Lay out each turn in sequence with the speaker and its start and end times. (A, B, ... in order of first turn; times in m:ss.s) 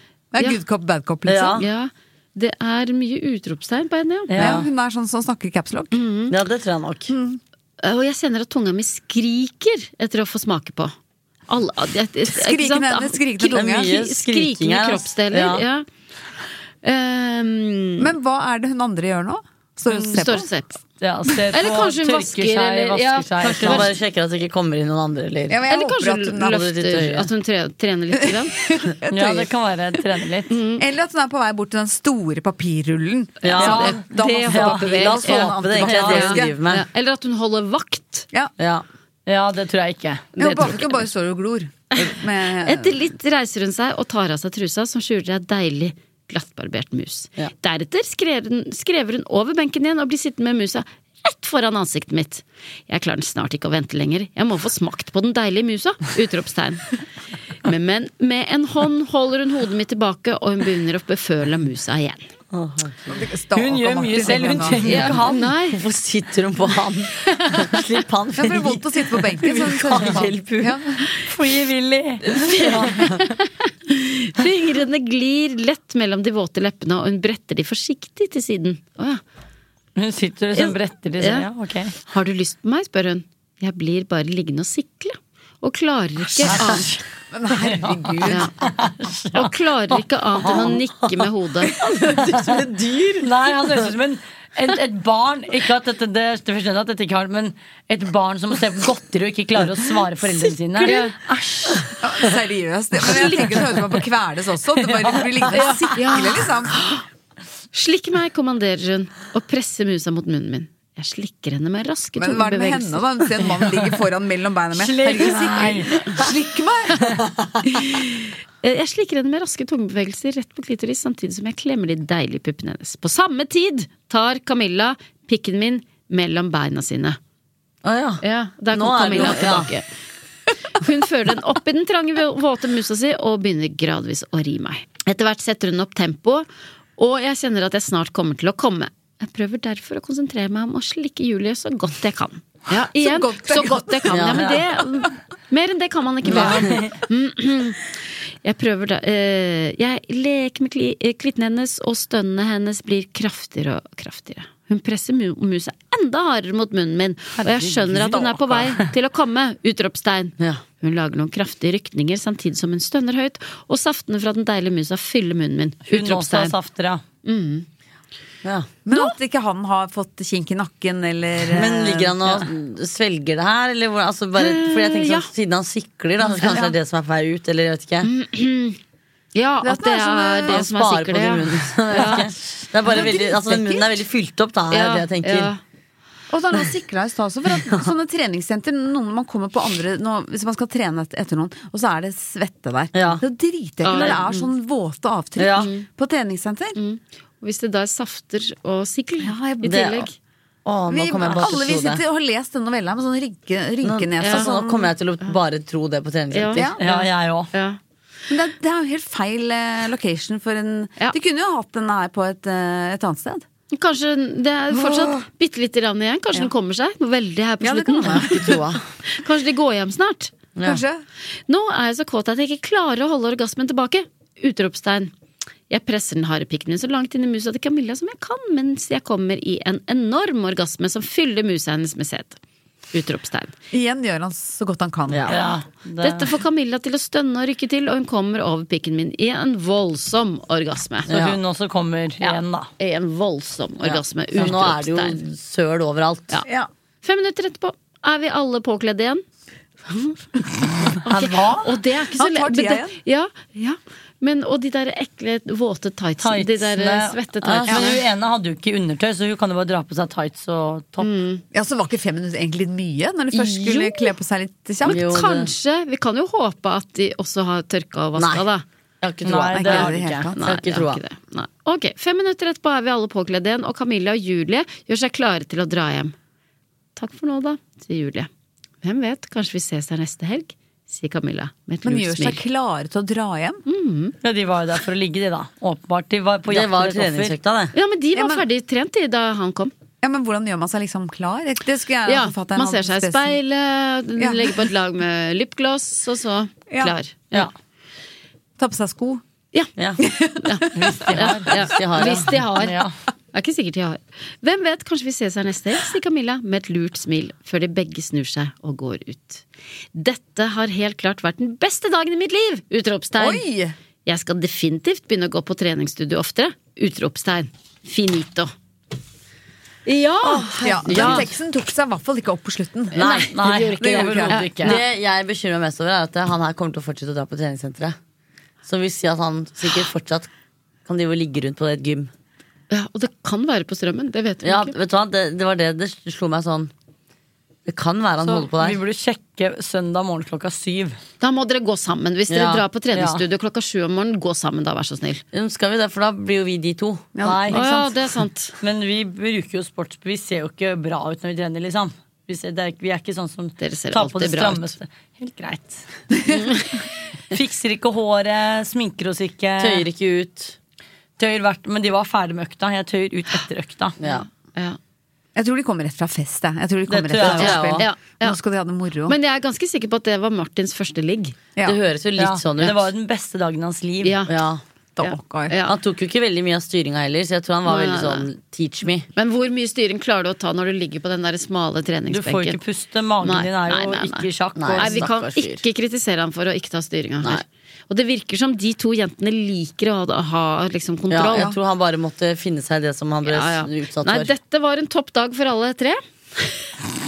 0:00.3-0:01.6 A
0:01.2-0:01.6 B
0:01.5-0:04.3 C
0:04.3-0:04.7 D
0:04.4-0:06.0 A
0:05.9-0:06.3 C
0:06.3-0:07.1 B
0:07.1-0:07.4 A
0:07.8-0:10.9 C
0:11.5-0:15.8 C
0:12.3-0:13.9 A
0:13.5-0:15.6 B
0:16.8-0:18.1 C
0:18.0-0:20.5 A
0:19.9-0:20.8 C
0:21.0-0:23.9 D
0:21.5-0:23.9 C
0:23.4-0:25.7 B
0:25.5-0:26.6 A
0:25.7-0:28.6 C
0:26.4-0:27.3 B
0:28.3-0:29.5 A
0:29.1-0:30.5 D
0:30.5-0:30.8 C
0:30.8-0:36.5 A
0:33.4-0:38.3 C
0:33.4-0:34.0 B
0:33.6-0:36.3 D
0:34.9-0:36.8 B
0:38.6-0:38.8 B
0:39.2-0:40.3 D
0:40.4-0:42.9 A
0:40.4-0:40.9 C
0:41.9-0:56.8 C
0:57.6-1:02.3 C
1:02.5-1:03.1 B
1:03.1-1:05.0 A
1:03.5-1:05.5 D
1:04.8-1:05.8 C
1:05.6-1:10.8 B
1:07.4-1:07.7 C
1:08.4-1:11.1 A
1:11.2-1:13.0 D
1:12.3-1:19.2 C
1:20.0-1:21.9 D
1:20.5-1:21.4 C
1:22.0-1:26.9 C
1:26.5-1:27.0 D
1:27.3-1:28.5 A
1:27.5-1:30.8 D
1:28.2-1:28.5 C
1:29.3-1:31.7 C
1:30.4-1:30.8 B
1:31.6-1:33.8 B
1:33.2-1:41.9 D
1:40.4-1:40.9 B
1:40.8-1:41.1 C
1:42.0-1:47.0 A
1:43.1-1:43.5 C
1:44.8-1:45.7 D
1:45.5-1:46.8 C
1:47.7-1:53.1 C
1:52.2-1:57.9 A
1:53.5-1:54.0 D
1:54.7-1:56.0 D
1:58.6-2:07.2 C
2:07.8-2:09.7 B
2:08.2-2:09.8 C
2:10.8-2:46.6 C
2:23.0-2:24.4 A
2:24.1-2:24.6 B
2:26.2-2:26.9 B
2:26.3-2:26.9 D
2:37.4-2:38.9 D
2:45.9-2:47.0 D
2:47.2-2:47.6 C
2:48.4-2:48.7 B
2:48.8-2:52.1 A
2:48.9-2:49.1 C
2:51.4-2:58.1 B
2:54.3-2:55.3 C
2:56.5-2:56.7 A
2:58.0-2:58.8 C
2:59.3-3:02.3 C
2:59.6-3:00.7 A
3:00.5-3:05.5 B
3:02.9-3:03.3 A
3:02.9-3:03.8 C
3:04.7-3:05.6 C
3:06.3-3:16.8 A
3:12.9-3:13.2 B
3:13.8-3:14.5 C
3:15.4-3:15.7 B
3:15.5-3:15.8 C
3:16.8-3:20.1 C
3:19.2-3:20.0 A
3:19.6-3:20.1 B
3:20.6-3:22.0 B
3:20.9-3:24.9 A
3:23.8-3:26.8 B
3:24.2-3:24.5 C
3:26.3-3:27.8 C
3:26.5-3:26.8 A
3:26.8-3:27.5 D
3:28.3-3:33.4 A
3:33.7-3:40.3 C
3:37.6-3:38.8 A
3:38.1-3:38.8 B
3:40.5-3:40.8 B
3:40.6-3:41.0 A
3:41.5-3:45.1 C
3:45.7-3:52.4 C
3:52.9-3:53.5 C
3:53.7-3:55.3 A
3:55.1-3:55.4 B
3:55.3-3:56.4 D
3:56.0-4:01.1 C
4:01.1-4:01.4 B
4:01.1-4:02.7 D
4:02.2-4:05.2 C
4:03.8-4:06.4 B
4:07.0-4:09.2 C
4:09.8-4:17.9 C
4:11.0-4:11.7 D
4:12.2-4:12.9 A
4:16.2-4:21.1 D
4:17.4-4:17.8 B
4:17.7-4:18.0 A
4:21.0-4:21.4 C
4:21.5-4:25.0 A
4:23.3-4:24.1 C
4:24.8-4:28.6 C
4:24.8-4:25.5 B
4:28.1-4:28.5 B
4:29.0-4:31.0 B
4:29.2-4:30.3 D
4:29.5-4:30.4 A
4:30.3-4:36.1 C
4:37.0-4:38.3 C
4:38.8-4:42.4 C
4:41.8-4:43.6 A
4:43.6-4:44.2 C
4:44.2-4:47.3 D
4:46.5-4:47.7 B
4:47.7-4:49.7 C
4:48.1-4:48.4 A
4:50.0-4:53.4 A
4:52.0-4:57.5 C
4:54.2-4:54.7 A
4:56.7-4:57.0 A
4:58.6-4:59.2 A
4:59.8-5:00.0 B
5:00.0-5:01.1 A
5:00.4-5:13.4 C
5:00.7-5:01.6 D
5:01.5-5:02.4 B
5:02.6-5:02.9 D
5:13.2-5:13.8 A
5:14.0-5:18.5 C
5:19.8-5:21.2 C
5:20.3-5:24.5 A
5:20.8-5:21.3 B
5:20.8-5:21.3 D
5:22.9-5:23.3 B
5:23.0-5:24.8 D
5:23.4-5:24.8 C
5:24.6-5:28.0 B
5:28.6-5:30.3 B
5:30.8-5:32.1 B
5:32.7-5:34.7 C
5:34.4-5:36.7 B
5:37.6-5:38.8 B
5:38.2-5:41.0 D
5:41.2-5:45.2 C
5:42.3-5:42.6 B
5:42.9-5:43.2 D
5:45.3-5:47.1 B
5:47.1-5:47.9 A
5:47.2-5:47.6 D
5:47.5-5:48.5 C
5:48.6-5:55.9 D
5:53.6-5:54.7 C
5:56.3-5:56.8 C
5:57.3-5:59.9 D
5:59.6-6:00.6 B
6:01.2-6:04.0 D
6:04.0-6:04.2 B
6:04.0-6:04.8 C
6:05.3-6:09.2 A
6:06.9-6:07.7 D
6:07.2-6:07.8 B
6:07.5-6:08.4 C
6:09.1-6:11.4 C
6:11.6-6:12.9 B
6:12.2-6:14.2 D
6:14.0-6:14.4 C
6:14.3-6:14.6 B
6:15.0-6:15.5 A
6:15.0-6:15.8 C
6:15.6-6:19.1 B
6:17.6-6:18.3 C
6:19.1-6:22.6 C
6:22.1-6:25.1 D
6:23.2-6:31.5 C
6:24.5-6:25.6 B
6:31.1-6:34.3 B
6:33.2-6:36.7 C